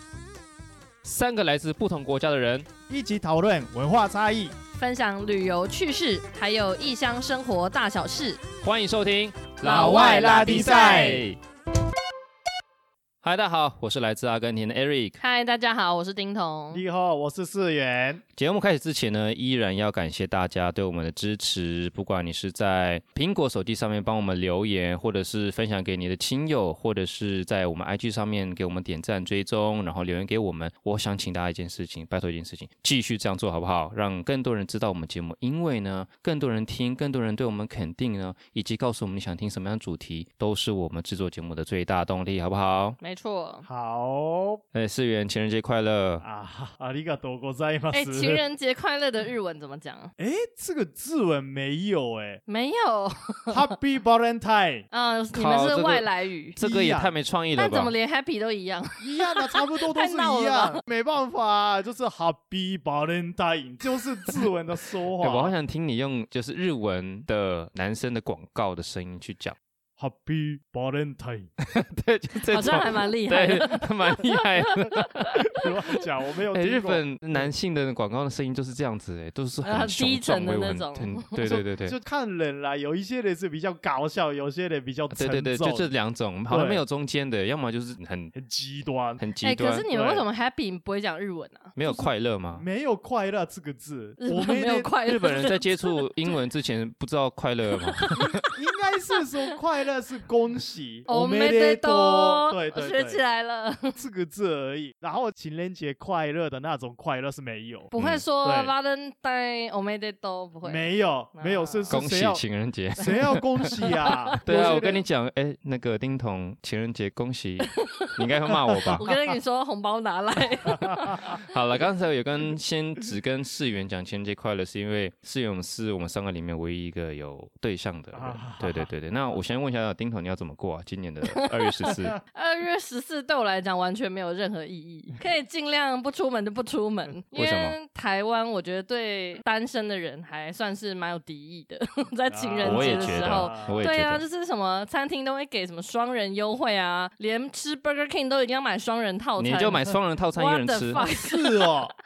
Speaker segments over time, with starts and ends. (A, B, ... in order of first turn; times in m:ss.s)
0:01.0-0:02.7 A
0:02.9-0:04.5 B
0:04.7-0:08.4 C
0:08.6-0:11.4 A
0:09.6-0:11.2 C
0:09.6-0:11.2 B
0:13.2-0:15.2 A
0:15.2-0:16.8 C
0:16.7-0:18.2 B
0:18.4-0:43.0 A
0:43.0-0:43.7 C
0:43.6-0:44.6 B
0:44.7-0:46.2 A
0:46.2-0:48.4 B
0:47.9-0:50.1 C
0:50.2-0:52.4 B
0:52.5-0:53.6 C
0:53.5-0:54.8 B
0:54.9-0:56.6 C
0:55.3-0:57.9 A
0:56.6-0:57.1 B
0:57.6-1:00.8 C
0:59.0-1:05.5 B
1:05.2-1:09.6 A
1:10.0-1:11.5 B
1:11.7-1:15.4 A
1:12.5-1:15.5 C
1:15.5-1:17.5 B
1:16.5-1:22.0 A
1:19.6-1:21.6 C
1:21.8-1:25.9 B
1:25.1-1:28.3 A
1:26.5-1:26.8 B
1:28.3-1:29.2 B
1:29.2-1:29.9 A
1:29.4-1:31.7 C
1:29.9-1:30.2 B
1:31.7-1:32.7 A
1:31.8-1:34.9 B
1:34.2-1:36.4 C
1:35.0-1:38.2 A
1:37.9-1:38.4 C
1:38.1-1:43.2 B
1:39.2-1:39.6 C
1:41.1-1:44.0 C
1:43.9-1:48.7 B
1:47.9-1:52.0 C
1:48.0-1:48.2 A
1:50.6-1:52.4 B
1:51.9-1:53.7 A
1:53.0-1:55.0 B
1:54.4-1:59.1 A
1:57.8-1:58.1 C
1:58.8-1:59.2 B
1:58.9-2:01.5 C
2:00.7-2:01.3 B
2:01.4-2:12.2 A
2:08.1-2:08.9 B
2:11.3-2:31.9 C
2:17.3-2:17.8 A
2:22.3-2:23.9 B
2:22.6-2:24.2 A
2:29.4-2:31.0 A
2:31.0-2:31.9 B